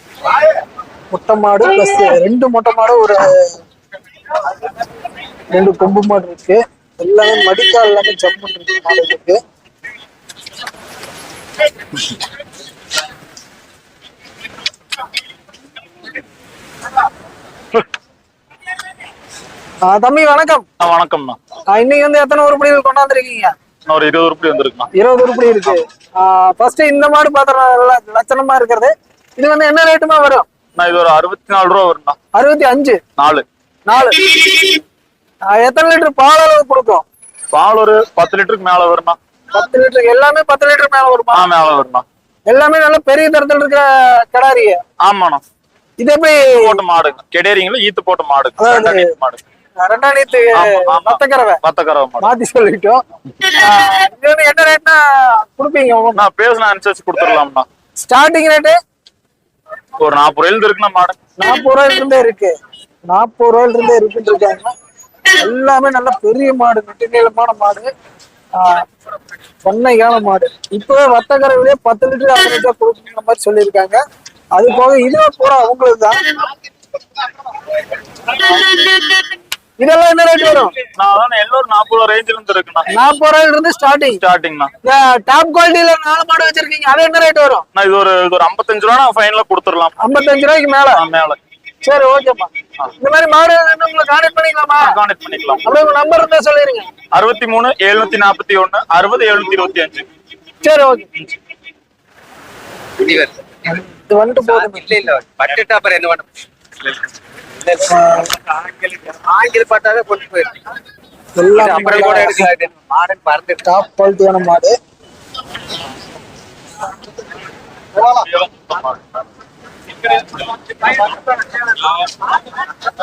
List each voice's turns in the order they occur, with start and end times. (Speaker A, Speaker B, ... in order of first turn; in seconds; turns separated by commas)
Speaker A: 1.1-3.5, Speaker A: 5.5-9.4, Speaker A: 19.9-20.6, Speaker B: 20.8-21.4, Speaker A: 21.7-23.5, Speaker B: 23.9-24.9, Speaker A: 24.9-30.5, Speaker B: 30.7-32.2, Speaker A: 32.3-33.0, Speaker B: 33.2-33.4, Speaker A: 33.9-34.7, Speaker A: 35.5-37.0, Speaker B: 37.5-39.2, Speaker A: 39.5-41.5, Speaker B: 41.3-42.0, Speaker A: 42.5-44.8, Speaker B: 45.0-45.4, Speaker A: 46.0-46.8, Speaker B: 46.5-49.4, Speaker A: 48.6-49.1, Speaker A: 49.8-51.6, Speaker B: 50.5-52.3, Speaker A: 52.2-56.2, Speaker B: 56.1-57.6, Speaker A: 58.0-58.8, Speaker B: 60.0-61.2, Speaker A: 61.4-62.5, Speaker A: 63.1-64.7, Speaker A: 65.3-67.9, Speaker A: 68.5-68.8, Speaker A: 69.6-74.0, Speaker A: 74.5-76.2, Speaker A: 78.3-78.9, Speaker A: 79.8-80.8, Speaker B: 80.9-82.9, Speaker A: 82.9-84.2, Speaker B: 84.2-84.7, Speaker A: 84.8-87.7, Speaker B: 87.7-90.0, Speaker A: 90.0-91.0, Speaker B: 90.9-91.4, Speaker A: 91.8-94.9, Speaker B: 94.8-95.6, Speaker A: 95.6-96.9, Speaker B: 97.1-100.0, Speaker A: 100.6-101.3, Speaker C: 103.0-103.4, Speaker A: 103.7-104.9, Speaker C: 104.5-106.3, Speaker A: 107.8-108.3, Speaker C: 108.7-110.5, Speaker A: 111.4-112.5, Speaker C: 111.6-113.6, Speaker B: 111.6-112.4, Speaker A: 113.6-114.7, Speaker B: 118.0-119.0